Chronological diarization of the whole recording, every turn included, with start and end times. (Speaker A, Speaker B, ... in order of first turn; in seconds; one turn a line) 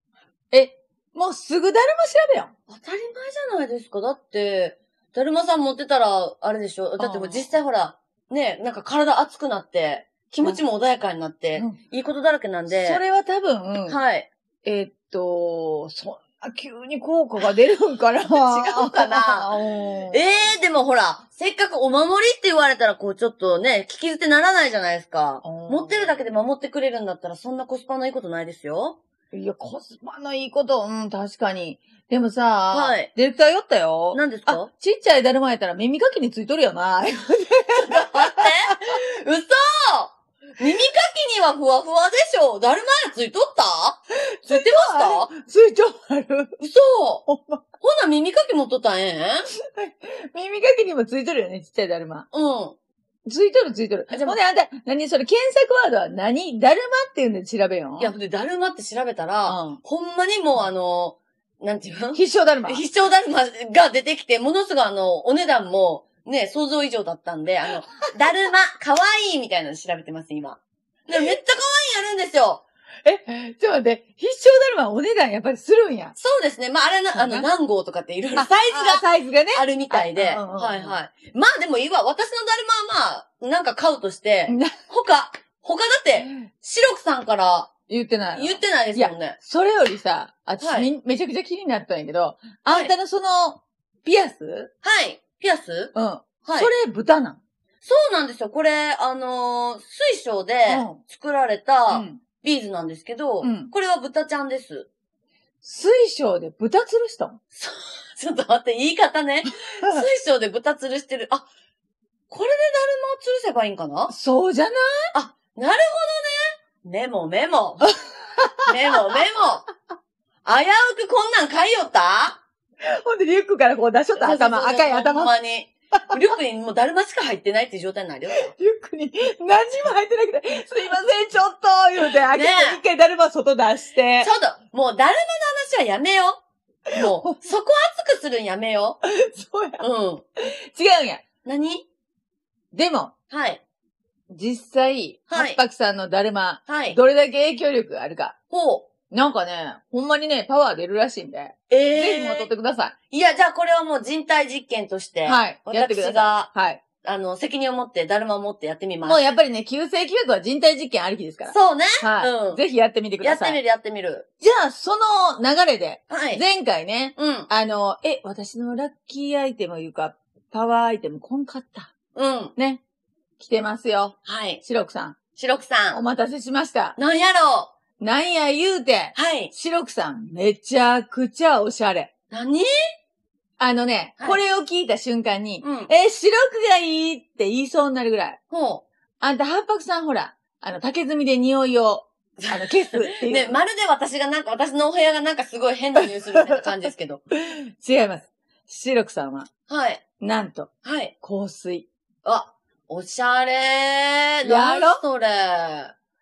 Speaker A: 0.5-2.5
Speaker B: 2.7-13.0
Speaker A: 7.0-7.5
Speaker A: 12.7-14.0
Speaker B: 13.9-14.3
Speaker A: 14.6-20.5
Speaker B: 18.2-19.5
Speaker B: 20.1-29.0
Speaker A: 25.4-26.2
Speaker A: 29.3-39.0
Speaker B: 32.7-33.1
Speaker B: 34.1-34.7
Speaker B: 37.7-45.3
Speaker A: 44.3-46.6
Speaker B: 46.6-47.3
Speaker A: 47.3-47.6
Speaker B: 47.8-49.5
Speaker A: 49.5-52.3
Speaker B: 52.3-52.8
Speaker A: 53.3-58.1
Speaker B: 54.1-54.4
Speaker B: 58.0-72.6
Speaker A: 59.5-59.8
Speaker A: 62.1-62.8
Speaker A: 73.0-76.2
Speaker B: 76.2-87.7
Speaker A: 77.2-77.5
Speaker A: 78.3-81.0
Speaker A: 84.5-84.8
Speaker A: 86.2-86.5
Speaker A: 87.9-94.7
Speaker B: 88.3-89.4
Speaker B: 90.6-90.9
Speaker B: 94.8-96.7
Speaker A: 96.0-97.4
Speaker B: 97.8-104.9
Speaker A: 100.7-101.0
Speaker A: 101.9-102.2
Speaker A: 103.4-103.7
Speaker A: 105.6-107.4
Speaker B: 107.5-111.5
Speaker A: 109.6-110.1
Speaker B: 112.3-114.1
Speaker A: 114.1-115.1
Speaker B: 115.1-117.9
Speaker A: 118.1-119.2
Speaker B: 118.7-119.7
Speaker B: 120.5-122.4
Speaker A: 122.8-125.3
Speaker B: 124.1-128.5
Speaker A: 128.5-134.3
Speaker B: 132.3-132.8
Speaker B: 134.2-136.4
Speaker A: 136.9-137.4
Speaker B: 136.9-139.0
Speaker A: 139.0-139.8
Speaker B: 139.8-140.2
Speaker A: 140.4-141.2
Speaker B: 141.4-141.9
Speaker A: 142.7-143.1
Speaker B: 143.3-143.6
Speaker A: 144.3-148.3
Speaker B: 145.3-145.6
Speaker B: 146.7-147.0
Speaker B: 148.5-148.9
Speaker A: 149.1-152.9
Speaker B: 151.7-152.5
Speaker B: 153.1-156.5
Speaker A: 155.2-156.8
Speaker B: 157.0-159.2
Speaker A: 159.1-163.6
Speaker B: 161.5-162.6
Speaker B: 163.2-164.3
Speaker A: 164.4-171.9
Speaker B: 166.1-166.4
Speaker B: 167.2-167.5
Speaker B: 172.2-172.5
Speaker A: 172.6-172.8
Speaker A: 173.4-175.2
Speaker B: 174.2-174.6
Speaker B: 175.4-176.0
Speaker A: 175.9-177.0
Speaker B: 177.0-177.7
Speaker A: 178.0-182.1
Speaker B: 179.2-179.5
Speaker B: 182.3-182.7
Speaker A: 183.6-188.4
Speaker B: 185.6-185.9
Speaker B: 188.5-188.8
Speaker A: 189.2-193.6
Speaker B: 192.4-197.2
Speaker A: 197.3-199.5
Speaker B: 199.7-200.0
Speaker A: 200.2-200.7
Speaker B: 200.8-201.1
Speaker A: 201.2-201.9
Speaker B: 202.2-205.9
Speaker A: 204.4-205.0